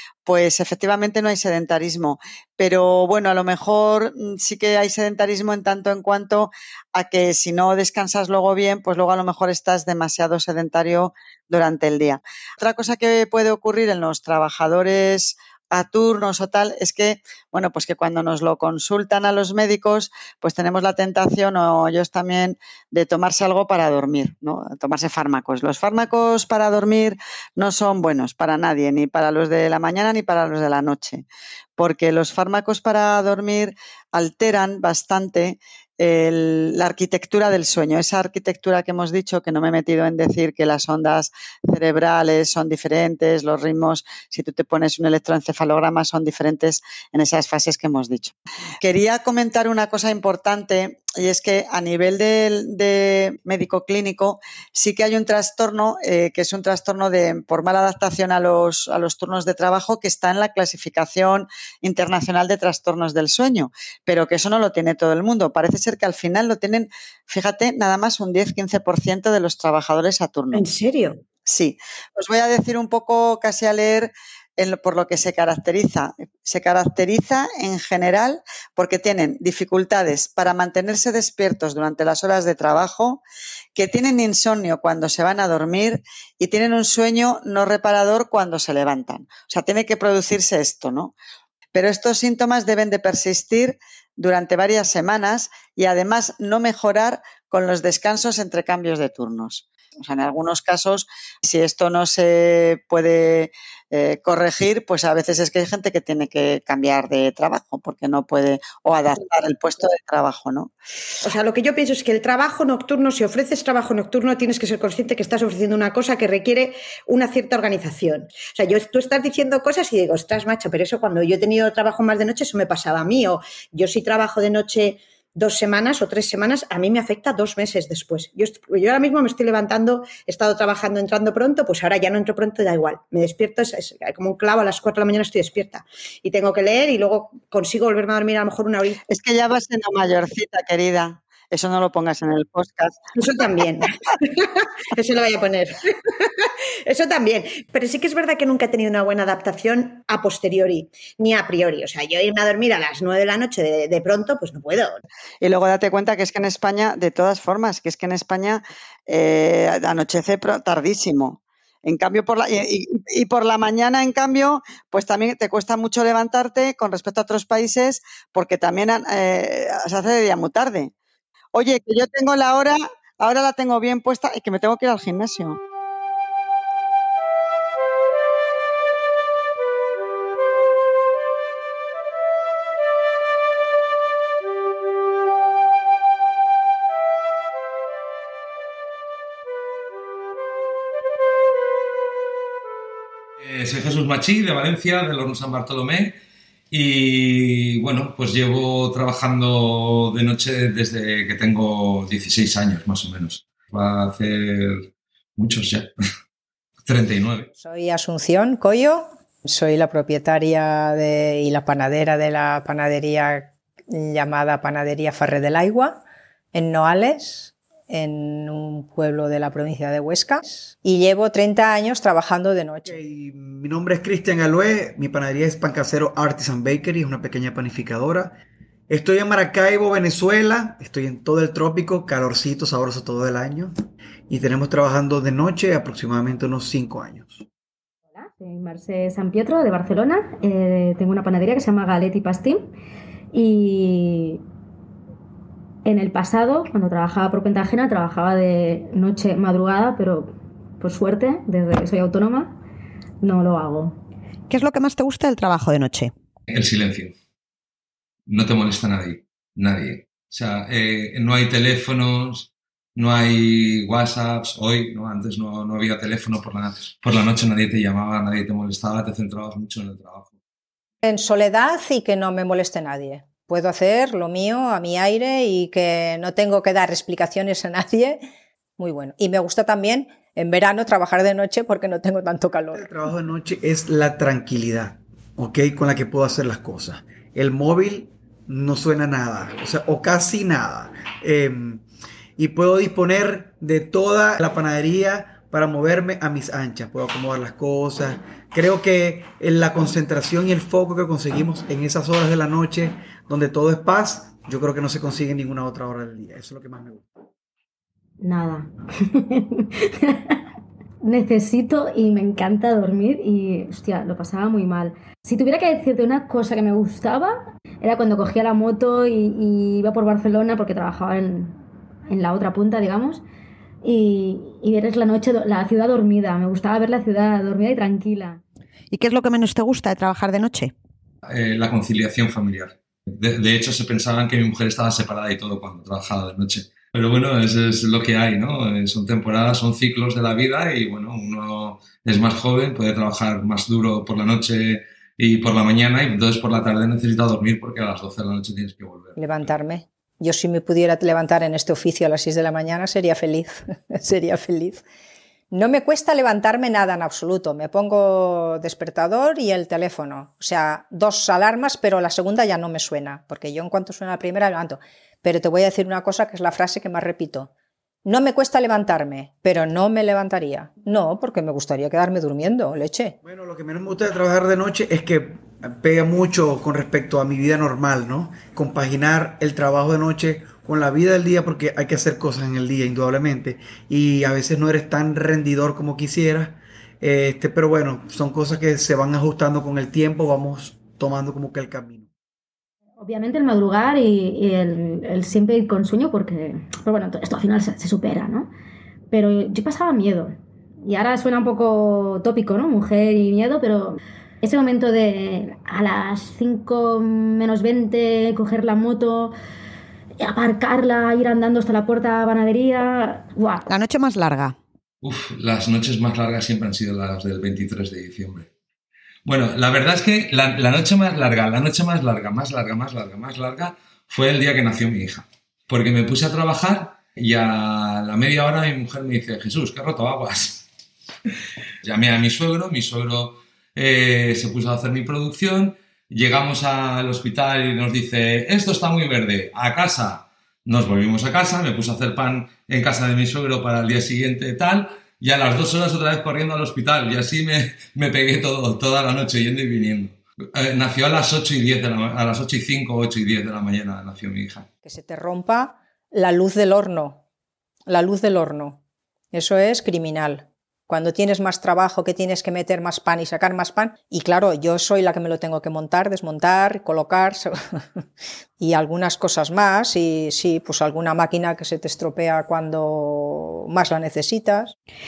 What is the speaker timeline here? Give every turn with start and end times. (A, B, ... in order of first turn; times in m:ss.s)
0:00.2-0:31.2 A
0:31.8-1:10.6 A
1:10.5-1:11.2 B
1:11.4-1:23.2 A
1:23.7-1:31.1 A
1:31.7-1:50.7 A
1:51.2-2:19.0 B
2:19.1-2:23.0 A
2:23.2-2:35.0 B
2:35.4-2:50.9 A
2:51.5-2:55.6 A
3:13.4-3:16.1 C
3:16.7-3:25.9 C
3:26.8-3:27.5 C
3:27.6-3:43.0 D
3:42.8-3:48.4 E
3:48.9-3:53.7 E
3:54.3-3:57.4 E
3:58.1-4:02.6 F
4:03.3-4:04.4 F
4:05.8-4:12.6 F
4:13.2-4:14.0 F
4:14.5-4:16.1 B
4:16.5-4:17.1 C
4:18.3-4:30.3 C
4:31.0-4:38.2 D
4:38.8-4:42.9 D
4:42.7-4:51.8 E
4:52.4-5:07.1 E
5:08.2-5:10.4 F
5:11.0-5:23.2 F
5:23.8-5:28.4 F
5:28.9-5:30.7 B
5:31.2-5:49.5 C
5:49.2-5:54.8 D
5:55.5-6:07.5 D
6:08.0-6:13.2 D
6:13.2-6:32.1 E
6:33.0-6:38.5 F
6:39.1-6:49.3 F
6:50.2-6:53.6 F
6:53.7-6:54.6 B
6:55.0-6:58.5 C
6:59.2-7:10.6 C
7:11.8-7:34.7 C
7:34.8-7:37.2 D
7:37.9-7:38.8 D
7:39.3-7:48.0 D
7:48.6-7:54.8 D